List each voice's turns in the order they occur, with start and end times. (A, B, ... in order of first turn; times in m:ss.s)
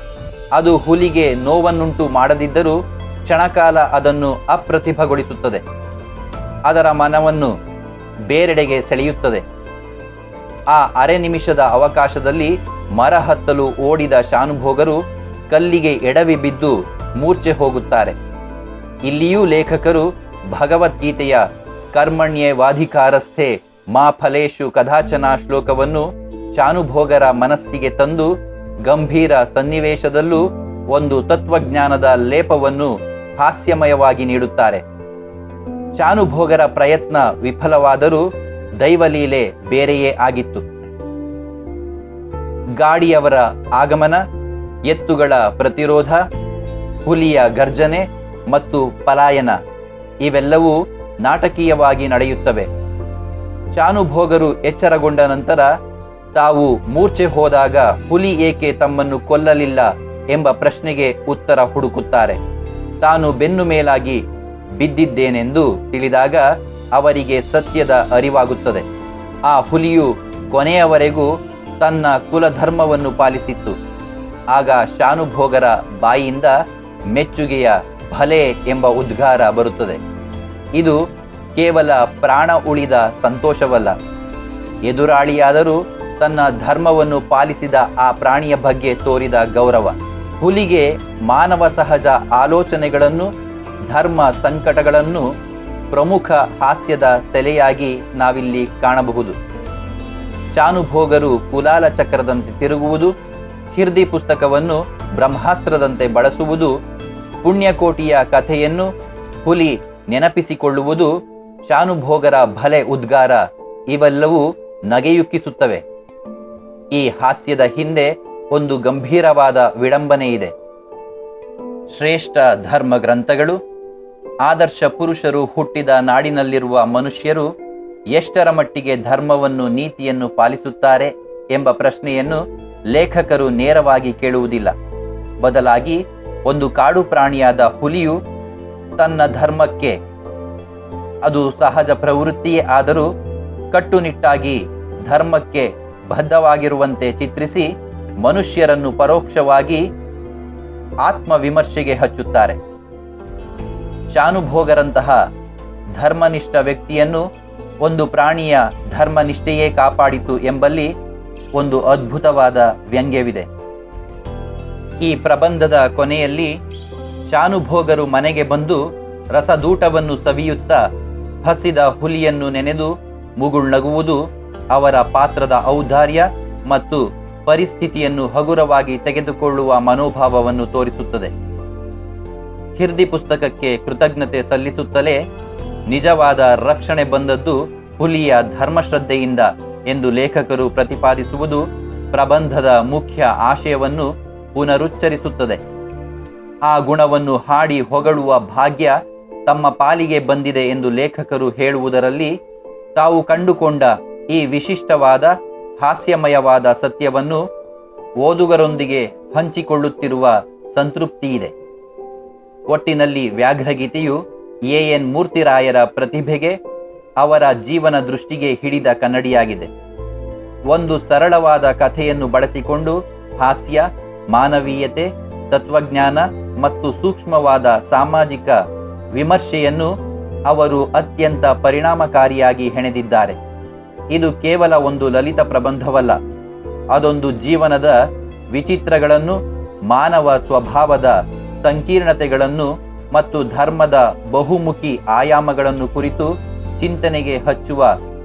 0:00.5-0:05.6 A
0:06.7-0:07.5 A
0:08.3-0:09.4 A
0:10.7-0:18.1 A
0:19.0-0:34.8 A
0:36.0-0:38.2 A
0:38.8-0:40.6 A
0:42.8-0:44.2 A
0:44.9-0:46.2 A
0:47.0-0:49.6 A
0:50.2-0:52.7 A
0:53.7-0:55.7 A
0:56.3-1:02.4 A
1:03.0-1:04.2 A
1:04.8-1:08.8 A
1:09.5-1:11.3 A
1:11.8-1:13.8 A
1:14.5-1:16.6 A
1:17.1-1:20.0 A
1:21.5-1:23.9 A
1:24.9-1:33.3 A
1:33.9-1:35.2 A
1:35.9-1:39.4 A
1:40.5-1:43.1 A
1:43.7-1:46.7 A
1:47.4-1:48.9 A
1:49.4-1:51.1 A
1:51.6-1:55.8 A
1:56.9-2:00.5 A
2:01.9-2:03.6 A
2:04.4-2:07.5 A
2:08.1-2:14.7 A
2:15.4-2:18.2 A
2:19.0-2:20.0 A
2:21.2-2:23.1 A
2:23.7-2:27.7 A
2:28.2-2:29.8 A
2:31.0-2:32.6 A
2:34.1-2:35.2 A
2:36.0-2:37.2 A
2:37.8-2:40.9 A
2:41.6-2:43.5 A
2:45.0-2:46.5 A
2:47.3-2:48.8 A
2:49.3-2:50.8 A
2:51.4-2:54.2 A
2:54.7-3:01.3 A
3:02.8-3:05.2 A
3:05.9-3:15.6 A
3:16.7-3:22.3 A
3:22.9-3:27.4 A
3:28.2-3:31.5 A
3:32.7-3:36.6 A
3:37.2-3:39.7 A
3:40.7-3:48.6 A
3:49.1-3:49.9 A
3:50.5-3:53.4 A
3:54.1-3:56.2 A
3:56.9-3:58.0 A
3:58.5-4:07.9 A